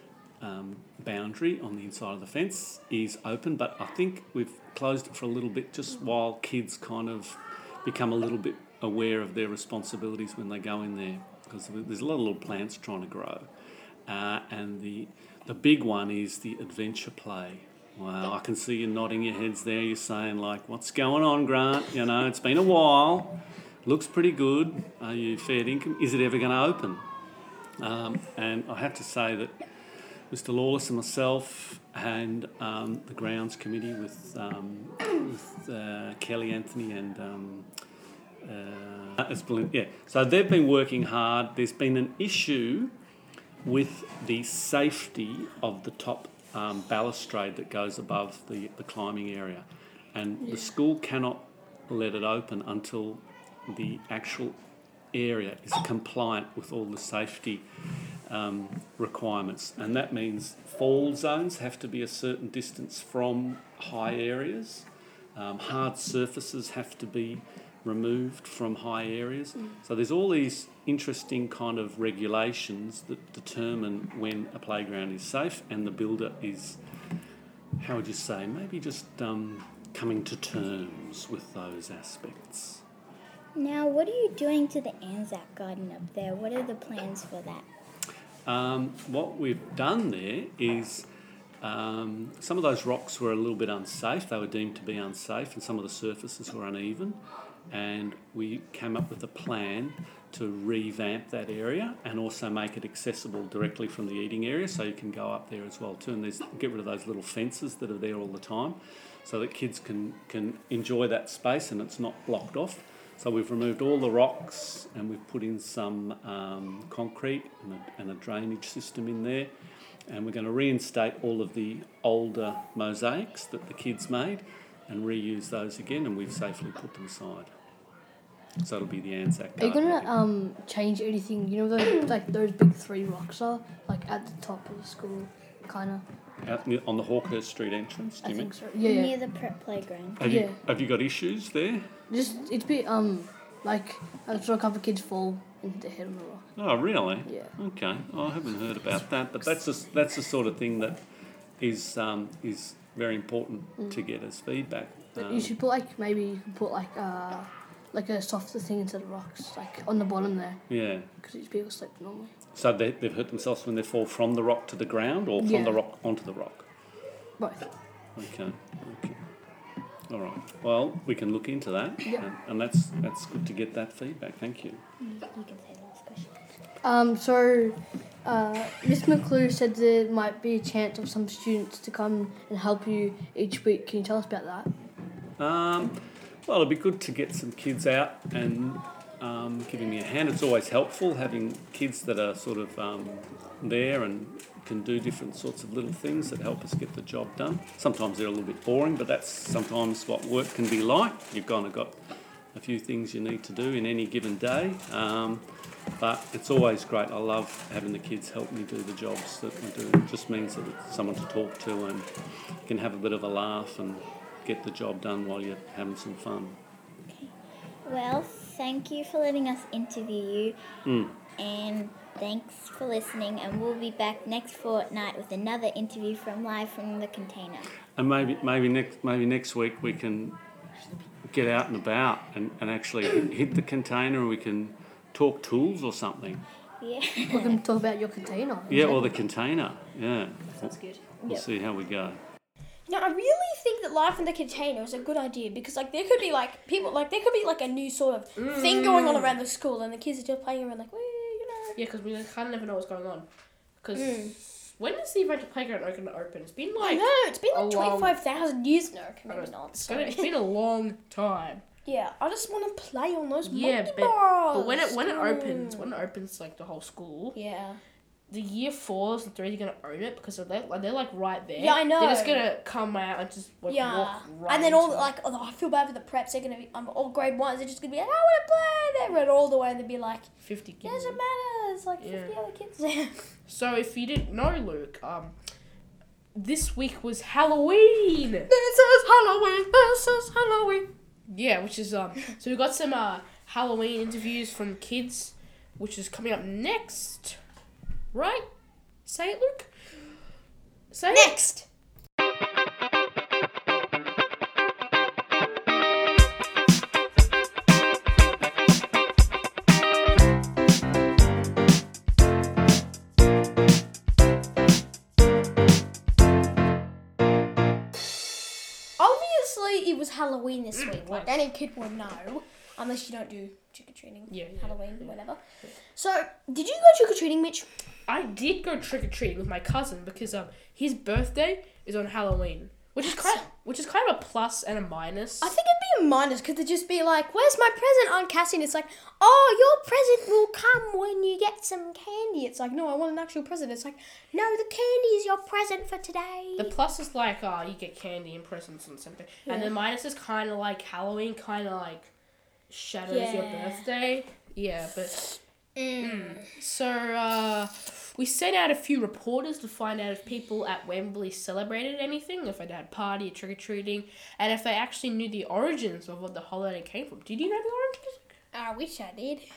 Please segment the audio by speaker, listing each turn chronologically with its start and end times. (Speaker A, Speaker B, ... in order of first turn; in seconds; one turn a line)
Speaker A: 0.4-13.5
Speaker A: 14.1-27.1
Speaker A: 27.8-29.6
Speaker A: 30.3-37.7
Speaker A: 38.4-42.9
Speaker A: 43.6-54.6
Speaker A: 55.1-57.6
Speaker A: 58.3-76.8
Speaker A: 77.8-82.8
Speaker B: 83.5-87.6
Speaker A: 88.5-91.1
Speaker A: 91.6-119.5
Speaker A: 120.1-127.5
Speaker A: 128.6-130.2
Speaker C: 129.6-136.0
Speaker A: 136.4-138.5
Speaker C: 138.2-139.2
Speaker B: 138.8-140.3
Speaker A: 140.2-141.9
Speaker C: 140.2-140.6
Speaker C: 142.1-146.5
Speaker A: 146.6-151.0
Speaker C: 147.3-147.5
Speaker A: 151.6-155.6
Speaker C: 155.2-160.6
Speaker A: 160.7-161.1
Speaker C: 161.2-162.3
Speaker A: 162.5-166.7
Speaker C: 165.4-165.8
Speaker C: 167.4-167.7
Speaker A: 168.2-169.2
Speaker A: 170.1-174.8
Speaker B: 175.2-176.3
Speaker C: 176.8-184.7
Speaker A: 185.4-202.0
Speaker A: 202.5-205.4
Speaker A: 206.0-212.1
Speaker A: 212.7-216.6
Speaker B: 217.9-220.6
Speaker A: 220.8-221.2
Speaker B: 221.3-227.7
Speaker A: 227.9-230.4
Speaker A: 231.3-236.4
Speaker B: 236.8-237.6
Speaker C: 237.2-239.2
Speaker A: 238.7-242.2
Speaker D: 242.9-251.8
Speaker E: 248.4-249.4
Speaker E: 251.8-253.2
Speaker E: 253.8-258.2
Speaker D: 253.9-254.3
Speaker D: 256.8-260.3
Speaker E: 259.3-261.6
Speaker D: 261.9-266.0
Speaker E: 263.4-267.4
Speaker D: 267.3-267.8
Speaker E: 268.3-275.1
Speaker D: 271.6-272.4
Speaker D: 273.7-280.3
Speaker E: 280.4-281.2
Speaker D: 280.8-283.2
Speaker E: 282.0-282.3
Speaker E: 283.5-285.3
Speaker E: 286.4-288.5
Speaker D: 288.5-290.9
Speaker E: 291.3-297.4
Speaker E: 298.1-298.4
Speaker E: 299.1-299.7
Speaker E: 300.9-301.4
Speaker D: 301.1-301.6
Speaker D: 319.0-325.4
Speaker E: 320.8-321.4
Speaker E: 324.3-325.7
Speaker D: 325.9-327.7
Speaker E: 328.1-335.5
Speaker D: 333.0-333.4
Speaker D: 335.4-346.7
Speaker E: 346.6-352.1
Speaker D: 349.5-349.7
Speaker E: 352.7-355.3
Speaker D: 353.1-353.9
Speaker E: 356.0-368.3
Speaker D: 356.0-356.4
Speaker D: 368.5-369.5